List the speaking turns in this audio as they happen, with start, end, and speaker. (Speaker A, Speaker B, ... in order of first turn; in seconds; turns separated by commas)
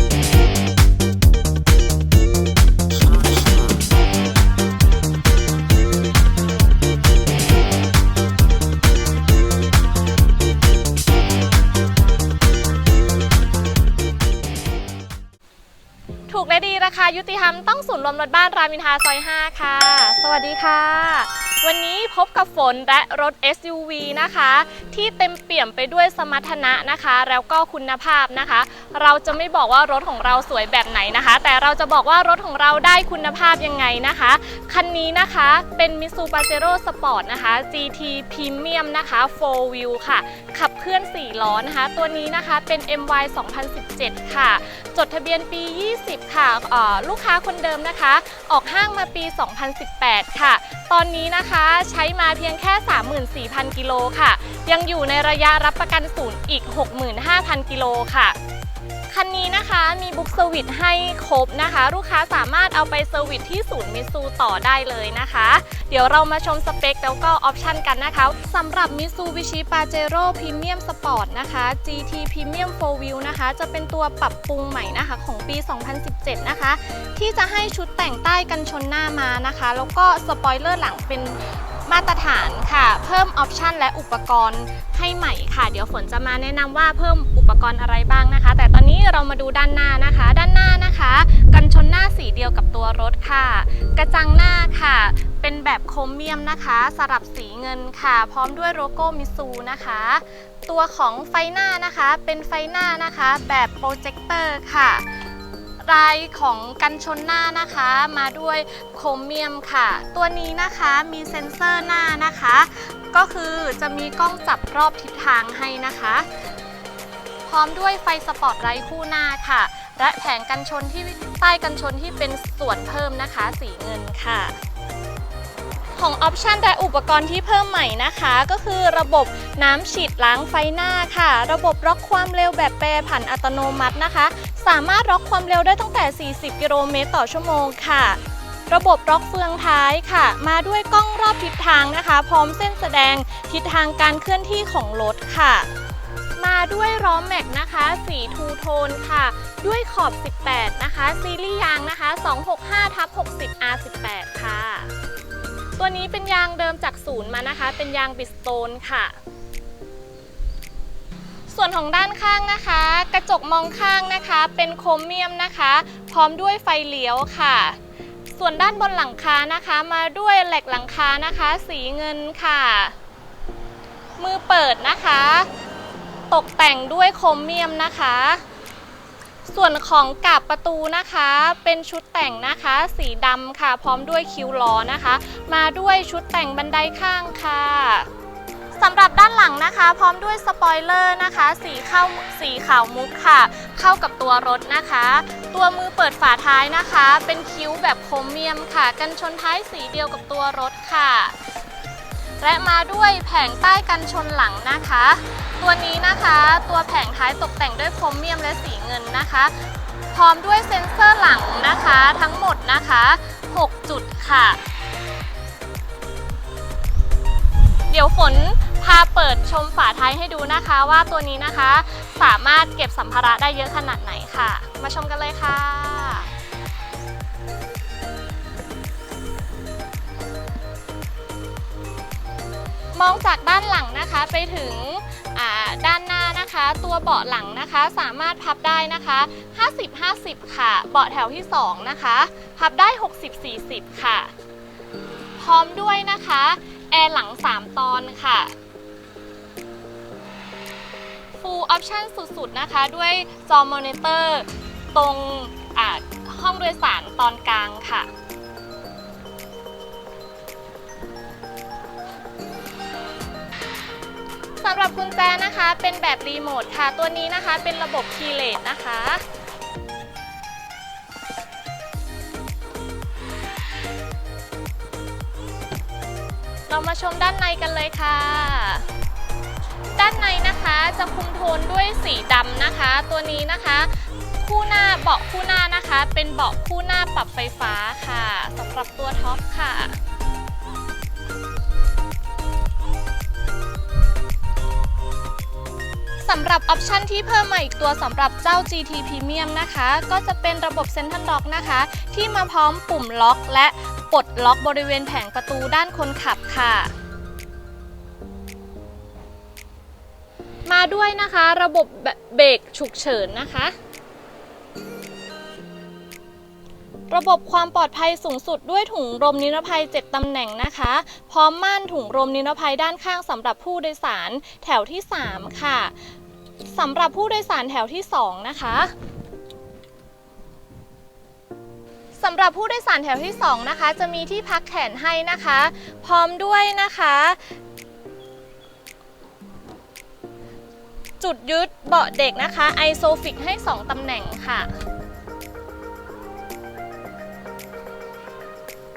Speaker A: 16.3-58.4, Speaker A: 59.1-105.1, Speaker A: 105.8-116.3, Speaker A: 117.5-124.5, Speaker A: 125.9-145.7, Speaker A: 146.4-154.9, Speaker A: 155.8-159.2, Speaker A: 161.5-167.8, Speaker A: 168.3-172.9, Speaker A: 174.2-175.5, Speaker A: 176.3-178.4, Speaker A: 179.5-188.1, Speaker A: 188.8-201.3, Speaker A: 202.4-214.6, Speaker A: 217.9-226.3, Speaker A: 232.9-244.3, Speaker A: 245.4-248.5, Speaker A: 251.4-258.1, Speaker A: 264.6-269.2, Speaker A: 276.7-278.9, Speaker A: 280.0-290.0, Speaker A: 296.2-306.9, Speaker A: 310.7-313.8, Speaker A: 317.1-325.9, Speaker A: 326.6-328.9, Speaker A: 332.2-337.5, Speaker A: 341.2-344.7